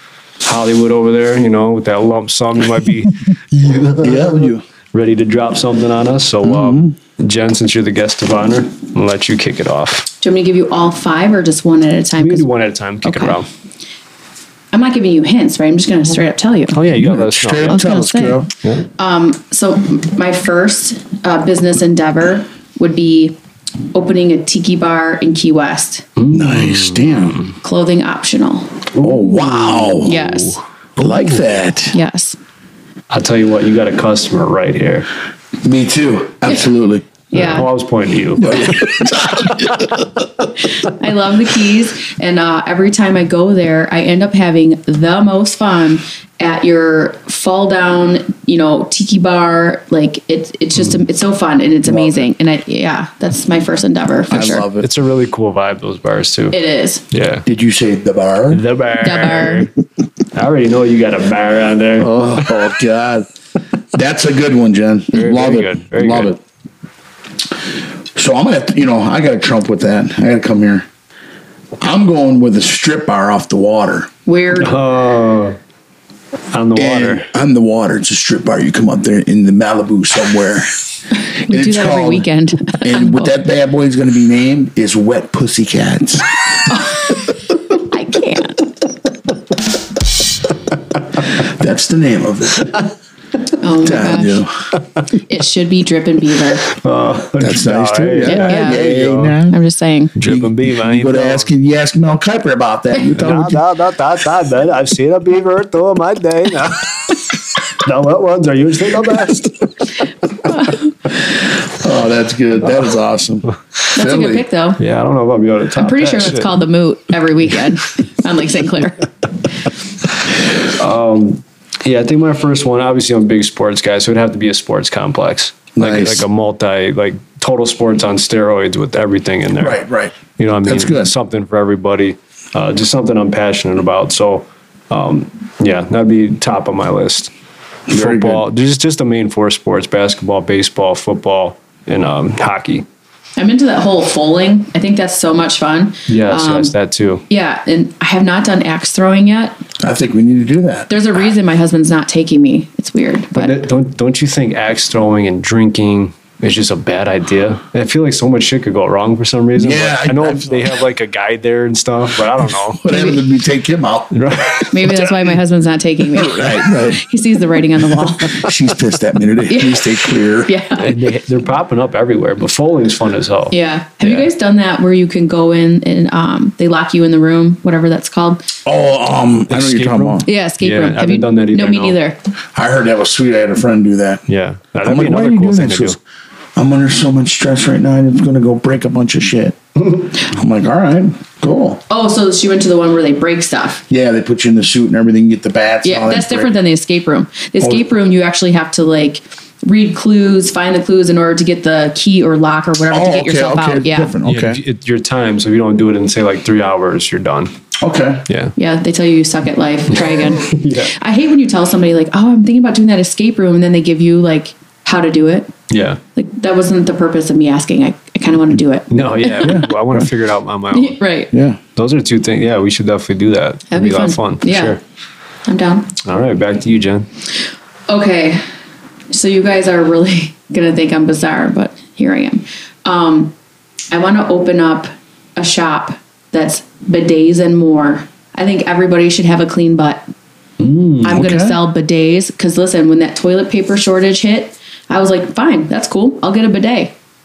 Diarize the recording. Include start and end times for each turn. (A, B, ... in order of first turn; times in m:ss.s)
0:00.4-0:10.1 A
0:03.9-0:04.6 B
0:06.4-0:07.0 B
0:10.2-0:12.5 C
0:12.2-0:13.5 A
0:13.0-0:13.4 C
0:14.7-0:16.8 C
0:16.7-0:17.9 A
0:16.9-0:18.5 B
0:17.7-0:18.4 C
0:19.0-0:23.4 C
0:23.9-0:26.1 C
0:26.2-0:27.5 A
0:26.3-0:27.4 B
0:27.6-0:28.8 C
0:28.9-0:31.6 A
0:29.0-0:30.2 B
0:30.0-0:30.6 C
0:31.0-0:31.9 B
0:31.9-0:32.4 C
0:33.1-0:35.1 A
0:35.6-0:37.0 B
0:37.3-0:37.7 C
0:37.3-0:39.5 A
0:38.4-0:40.1 B
0:40.6-0:54.6 C
0:51.9-0:52.2 B
0:54.3-0:54.9 B
0:54.8-0:56.6 A
0:56.5-0:57.0 C
0:57.1-0:57.4 A
0:57.4-0:58.6 B
0:58.5-0:59.7 A
0:59.0-0:59.7 C
1:00.3-1:02.6 A
1:02.0-1:03.3 B
1:03.9-1:06.4 B
1:05.1-1:06.3 A
1:08.1-1:10.8 B
1:11.8-1:14.1 B
1:14.2-1:14.7 C
1:14.6-1:15.6 A
1:16.5-1:17.2 A
1:16.7-1:20.7 B
1:21.4-1:23.3 C
1:21.4-1:26.3 B
1:26.7-1:28.6 C
1:31.3-1:32.7 B
1:33.6-1:34.4 C
1:33.8-1:34.6 B
1:35.3-1:36.6 C
1:36.6-1:39.4 A
1:37.4-1:39.6 B
1:38.2-1:38.8 C
1:39.5-1:40.1 C
1:40.2-1:41.5 A
1:40.2-1:43.6 B
1:43.1-1:49.9 A
1:50.4-1:50.8 C
1:51.7-1:54.4 B
1:53.9-1:54.8 C
1:54.8-1:56.6 A
1:55.8-1:59.1 C
2:00.7-2:09.8 A
2:05.8-2:06.2 B
2:09.6-2:11.1 B
2:10.4-2:17.3 A
2:17.9-2:18.4 B
2:17.9-2:22.8 A
2:23.4-2:26.7 C
2:26.1-2:27.2 A
2:27.3-2:29.6 C
2:29.8-2:31.2 B
2:30.9-2:33.6 C
2:33.3-2:42.8 A
2:39.6-2:40.8 B
2:42.8-2:45.1 B
2:42.9-2:43.2 C
2:44.1-2:44.7 A
2:44.7-2:48.5 C
2:46.1-2:47.0 B
2:48.2-2:50.5 B
2:49.5-2:49.8 C
2:50.4-2:50.9 C
2:50.8-2:54.3 A
2:53.5-2:58.4 C
2:58.6-3:00.2 B
2:59.5-3:02.0 A
3:00.2-3:02.2 C
3:02.5-3:04.2 B
3:04.3-3:06.0 A
3:04.8-3:06.0 B
3:06.6-3:11.8 B
3:11.9-3:13.8 C
3:13.9-3:16.5 B
3:15.8-3:24.1 C
3:22.9-3:24.6 B
3:24.2-3:27.5 A
3:27.8-3:28.2 B
3:28.3-3:28.5 A
3:28.6-3:35.5 C
3:30.0-3:30.9 A
3:35.7-3:36.0 A
3:36.2-3:39.6 C
3:38.9-3:41.0 A
3:39.4-3:40.1 B
3:40.7-3:41.3 C
3:41.3-3:41.6 B
3:41.8-3:44.8 A
3:43.7-3:44.8 C
3:45.4-3:45.9 C
3:46.0-3:47.1 A
3:47.9-3:48.4 C
3:49.1-3:53.3 C
3:53.9-4:00.1 C
4:00.6-4:01.2 A
4:01.0-4:06.9 C
4:01.1-4:01.6 B